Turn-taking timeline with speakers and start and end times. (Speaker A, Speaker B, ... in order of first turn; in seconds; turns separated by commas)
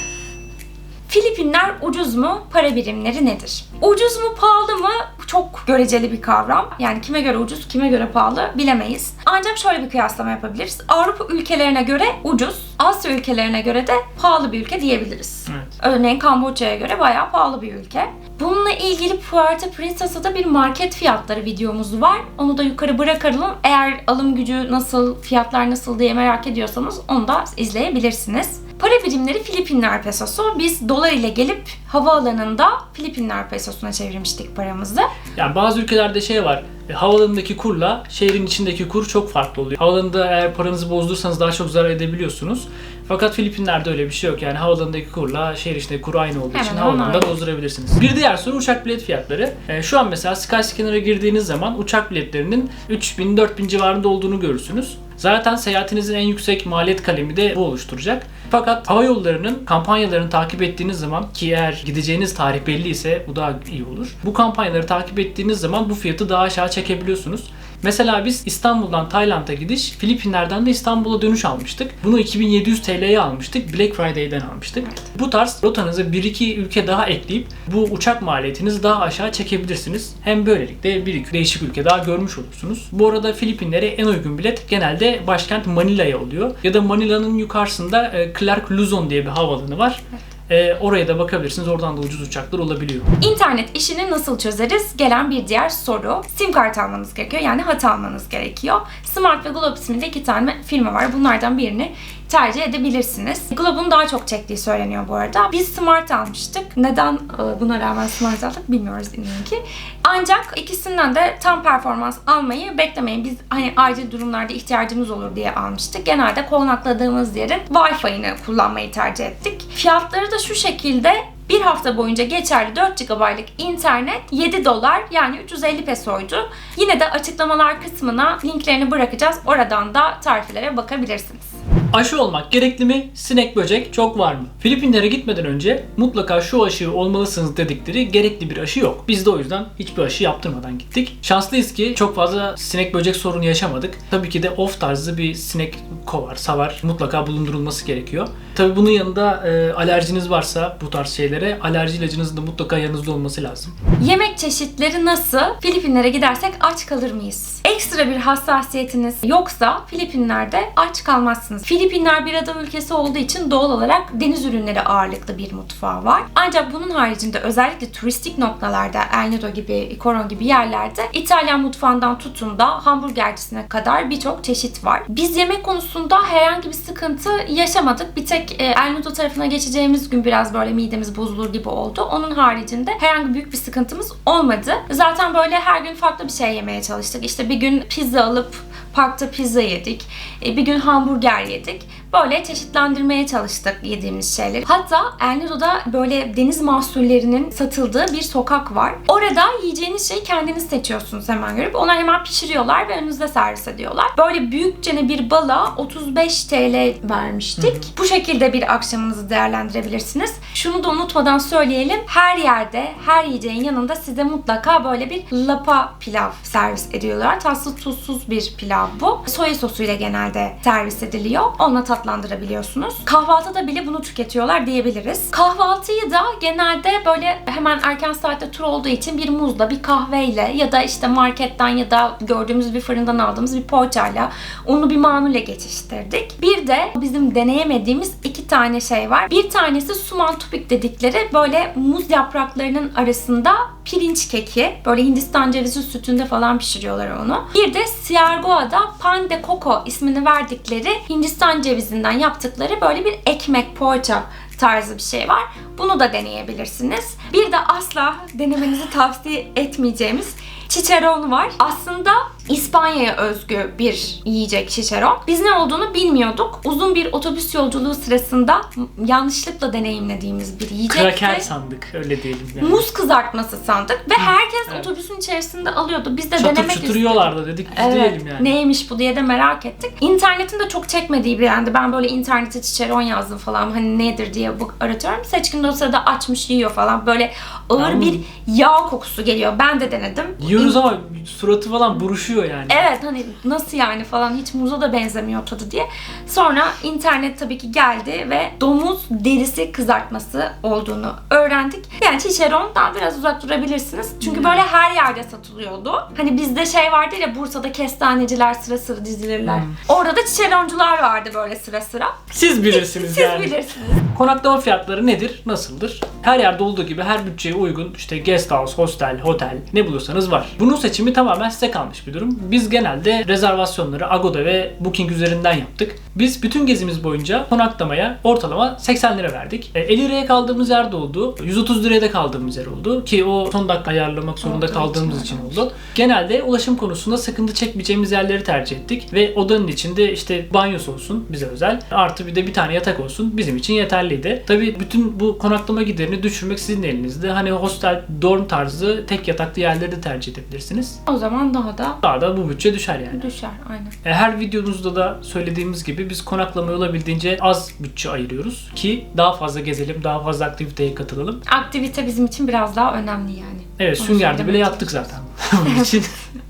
Speaker A: 1.1-35.1, Speaker B: 35.4-93.1, Speaker A: 46.5-47.3, Speaker A: 93.2-131.6, Speaker B: 131.9-153.7, Speaker A: 154.0-271.5, Speaker B: 207.6-207.9, Speaker B: 270.9-272.8, Speaker A: 272.6-290.8, Speaker B: 274.2-274.9, Speaker B: 276.4-278.5, Speaker B: 287.8-288.2, Speaker B: 290.4-292.9, Speaker A: 292.7-314.0, Speaker B: 304.2-304.6, Speaker B: 309.4-309.8, Speaker B: 312.3-351.0, Speaker A: 334.4-335.6, Speaker A: 351.1-352.0, Speaker B: 352.0-353.2, Speaker A: 353.1-353.9, Speaker B: 354.0-361.4, Speaker A: 361.4-365.1, Speaker B: 363.8-366.1, Speaker A: 365.6-365.9